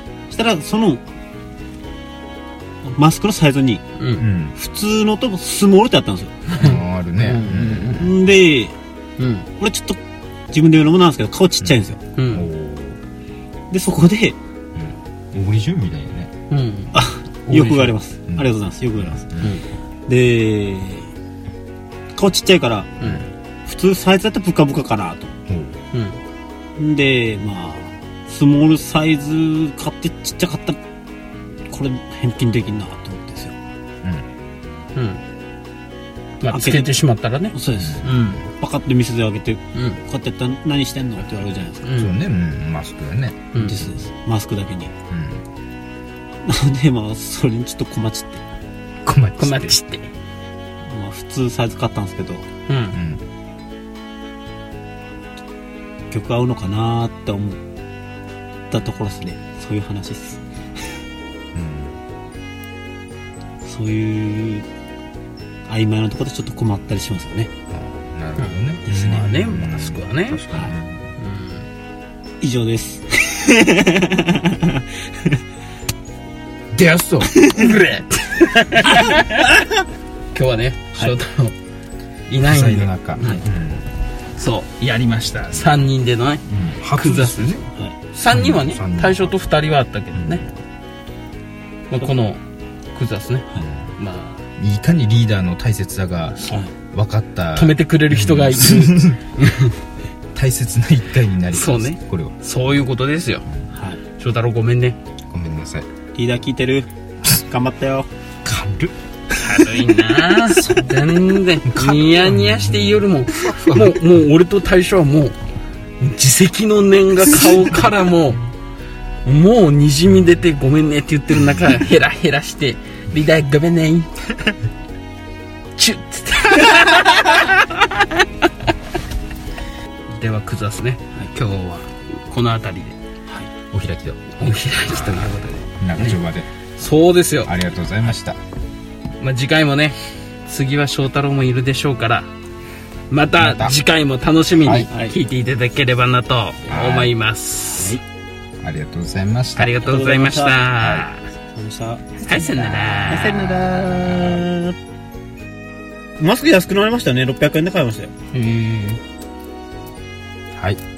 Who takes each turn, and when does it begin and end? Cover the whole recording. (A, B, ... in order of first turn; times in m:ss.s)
0:00.3-0:01.0 A
0:02.8-0:03.8 A
0:04.0-0:04.2 B
0:04.2-0:04.6 C
0:04.5-0:06.4 A
0:06.5-0:08.1 B
0:06.6-0:08.1 C
0:08.0-0:08.7 A
0:09.2-0:09.5 B
0:09.6-0:10.0 A
0:10.5-0:12.0 A
0:12.2-0:12.4 B
0:12.3-0:13.0 C
0:13.7-0:14.4 A
0:14.7-0:16.3 C
0:16.5-0:17.9 B
0:16.9-0:19.2 A
0:19.0-0:19.6 C
0:19.4-0:19.7 B
0:20.1-0:21.1 A
0:22.2-0:25.4 A
0:23.0-0:23.3 C
0:25.5-0:25.8 C
0:25.9-0:26.2 B
0:26.8-0:30.8 A
0:31.7-0:33.5 A
0:34.9-0:35.2 B
0:36.4-0:38.4 B
0:36.5-0:37.0 A
0:37.5-0:41.9 A
0:37.8-0:38.3 C
0:39.7-0:40.0 B
0:41.8-0:42.2 B
0:41.9-0:43.5 C
0:43.5-0:43.8 B
0:43.6-0:44.9 A
0:45.1-0:45.4 C
0:46.4-0:48.4 A
0:49.0-0:49.8 C
0:49.4-0:50.1 B
0:50.9-0:52.4 A
0:52.7-0:53.0 B
0:52.9-0:53.2 C
0:56.1-0:57.6 A
0:58.7-1:00.4 A
1:01.5-1:02.0 C
1:03.6-1:04.6 A
1:05.7-1:07.5 A
1:07.7-1:11.1 C
1:08.4-1:10.4 B
1:08.9-1:09.4 A
1:11.2-1:11.6 B
1:12.4-1:15.4 A
1:16.7-1:17.3 C
1:17.3-1:17.6 A
1:17.4-1:19.5 B
1:20.3-1:21.6 B
1:22.3-1:23.4 B
1:22.4-1:23.8 C
1:24.4-1:30.4 B
1:26.5-1:27.6 C
1:28.3-1:29.4 C
1:30.1-1:30.5 C
1:31.9-1:32.4 B
1:32.9-1:34.4 B
1:34.6-1:39.2 C
1:37.5-1:39.7 B
1:40.3-1:42.3 C
1:41.5-1:43.4 B
1:43.7-1:44.0 A
1:44.2-1:45.0 B
1:45.3-1:45.9 C
1:46.1-1:48.1 A
1:48.4-1:48.9 C
1:49.4-1:55.3 B
1:50.4-1:51.1 C
1:51.6-1:54.2 C
1:56.0-1:58.4 B
1:59.2-2:04.1 B
2:01.5-2:01.8 C
2:05.8-2:08.2 B
2:10.1-2:13.0 B
2:13.7-2:16.5 C
2:14.4-2:16.2 B
2:16.8-2:17.5 B
2:17.4-2:18.4 C
2:19.2-2:22.3 B
2:23.1-2:28.0 B
2:23.4-2:23.8 C
2:24.6-2:24.9 C
2:24.9-2:25.2 A
2:26.7-2:27.1 C
2:27.7-2:28.0 A
2:28.6-2:29.8 C
2:29.5-2:31.2 B
2:29.8-2:30.7 A
2:30.8-2:31.0 C
2:31.5-2:34.8 A
2:32.2-2:33.6 B
2:36.2-2:38.1 A
2:38.3-2:39.0 B